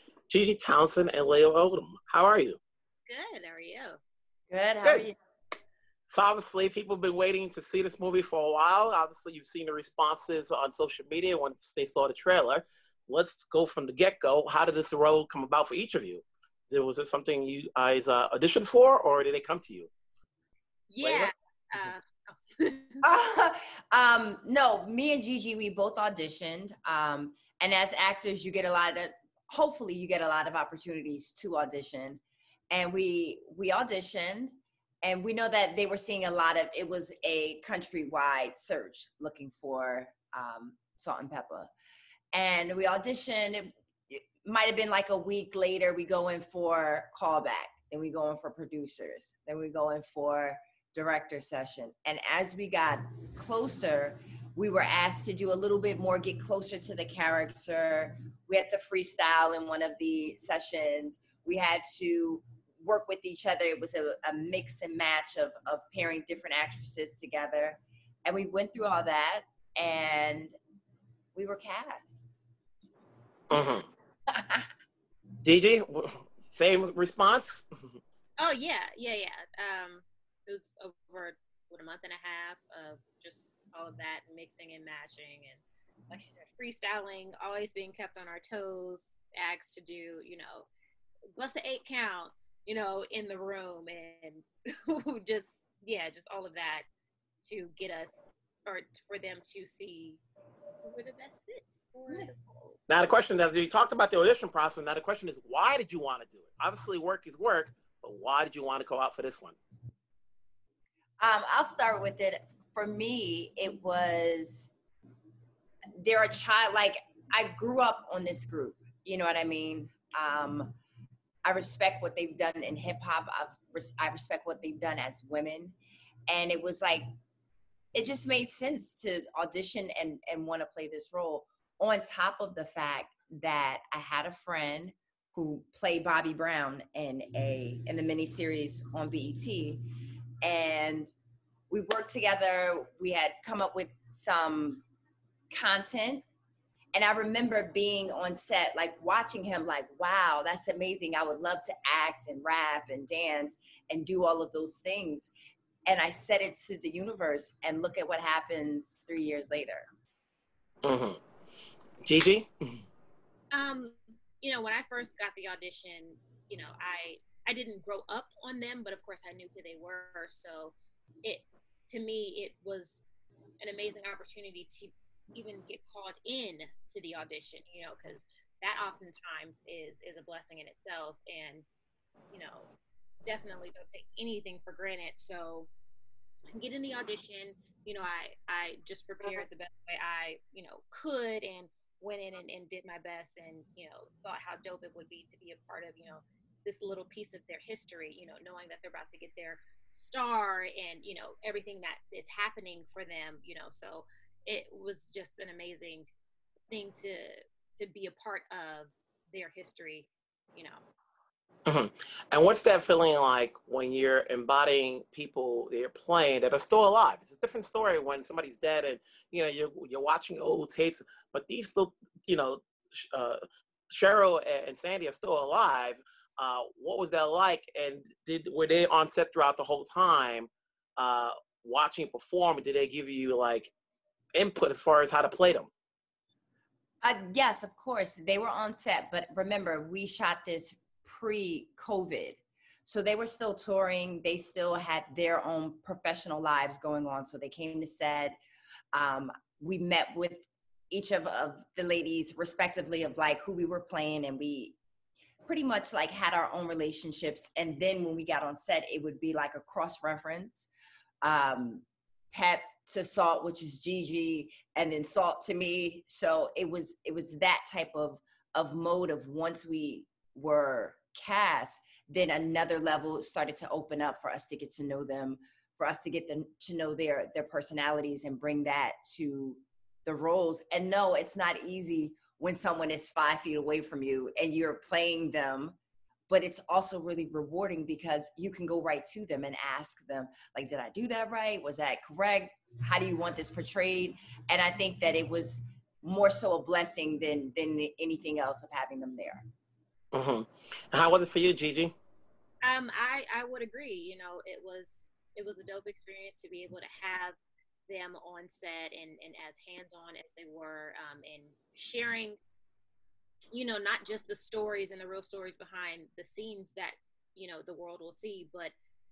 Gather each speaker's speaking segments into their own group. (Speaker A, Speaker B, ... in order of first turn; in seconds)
Speaker A: 0.3-2.6, 6.1-19.9, 21.0-21.3, 73.5-73.9, 75.4-77.6, 102.9-109.6, 160.8-161.2, 162.0-162.5, 211.7-233.7, 234.3-235.7, 300.1-301.9
Speaker B: 3.1-4.0, 20.9-23.0, 78.4-90.7, 91.3-96.8, 97.4-100.2, 100.8-102.8, 163.5-173.1, 173.6-181.7, 182.3-182.7, 183.2-185.7, 186.5-206.1, 206.7-210.8, 302.6-307.4, 307.9-312.4, 313.5-318.7
Speaker C: 4.5-5.1, 23.0-41.7, 42.3-70.5, 71.3-72.4, 74.3-74.7, 111.2-114.7, 116.0-120.8, 121.4-125.8, 126.3-127.1, 127.9-139.9, 140.4-141.1, 141.7-144.8, 145.5-146.2, 146.9-155.3, 155.9-159.9, 237.0-248.4, 248.9-254.8, 255.4-260.7, 261.2-285.8, 286.3-299.4